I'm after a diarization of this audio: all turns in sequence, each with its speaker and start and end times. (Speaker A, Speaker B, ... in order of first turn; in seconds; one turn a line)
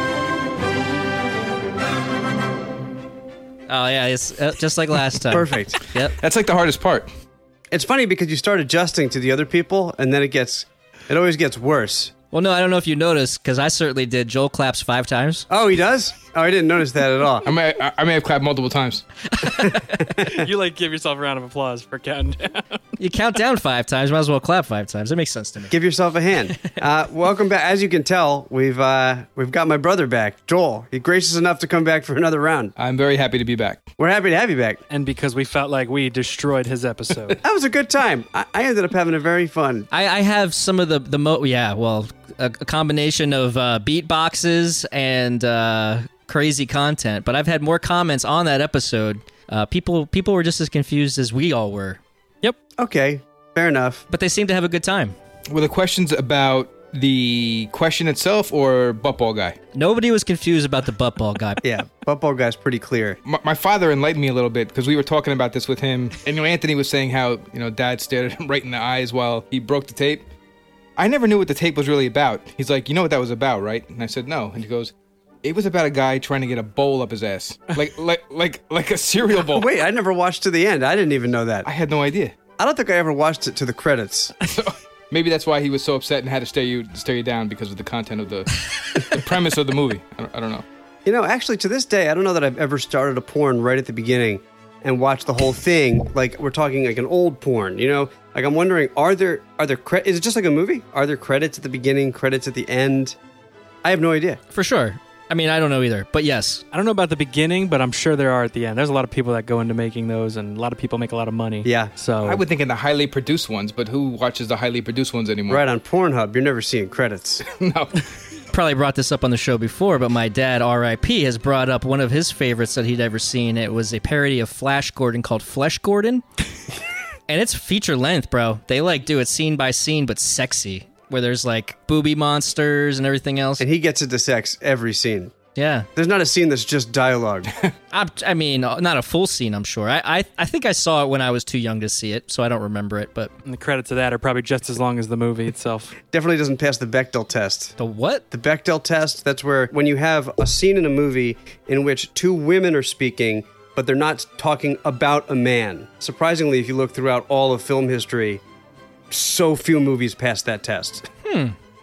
Speaker A: 3.7-6.2
Speaker B: 5.3-5.8
Speaker C: 6.1-7.1
Speaker B: 7.7-12.1
Speaker A: 12.3-15.5
Speaker B: 15.5-17.5
Speaker C: 17.4-19.1
Speaker A: 19.4-19.9
Speaker B: 19.5-20.5
Speaker D: 20.2-22.8
Speaker A: 23.0-25.7
Speaker B: 25.7-32.7
Speaker C: 32.8-33.9
Speaker B: 34.0-34.8
Speaker D: 34.9-37.4
Speaker B: 37.4-39.9
Speaker A: 39.9-52.0
Speaker B: 52.8-54.0
Speaker A: 54.1-55.1
Speaker C: 55.5-59.6
Speaker A: 59.7-61.6
Speaker B: 61.6-63.2
Speaker C: 63.2-70.3
Speaker C: 71.0-79.7
Speaker B: 79.4-81.7
Speaker C: 81.7-82.4
Speaker B: 82.6-84.3
Speaker C: 84.5-90.7
Speaker B: 91.0-103.2
Speaker B: 103.8-104.4
Speaker A: 104.5-106.6
Speaker D: 106.7-112.4
Speaker B: 111.6-111.9
Speaker C: 112.2-115.6
Speaker B: 115.5-117.4
Speaker C: 117.4-117.9
Speaker A: 118.5-126.2
Speaker A: 127.3-133.7
Speaker B: 133.6-135.3
Speaker A: 135.6-135.9
Speaker B: 136.0-137.5
Speaker A: 137.9-143.3
Speaker D: 143.4-146.0
Speaker B: 146.1-147.8
Speaker A: 147.8-148.2
Speaker B: 148.3-158.4
Speaker B: 159.1-161.1
Speaker A: 161.2-161.6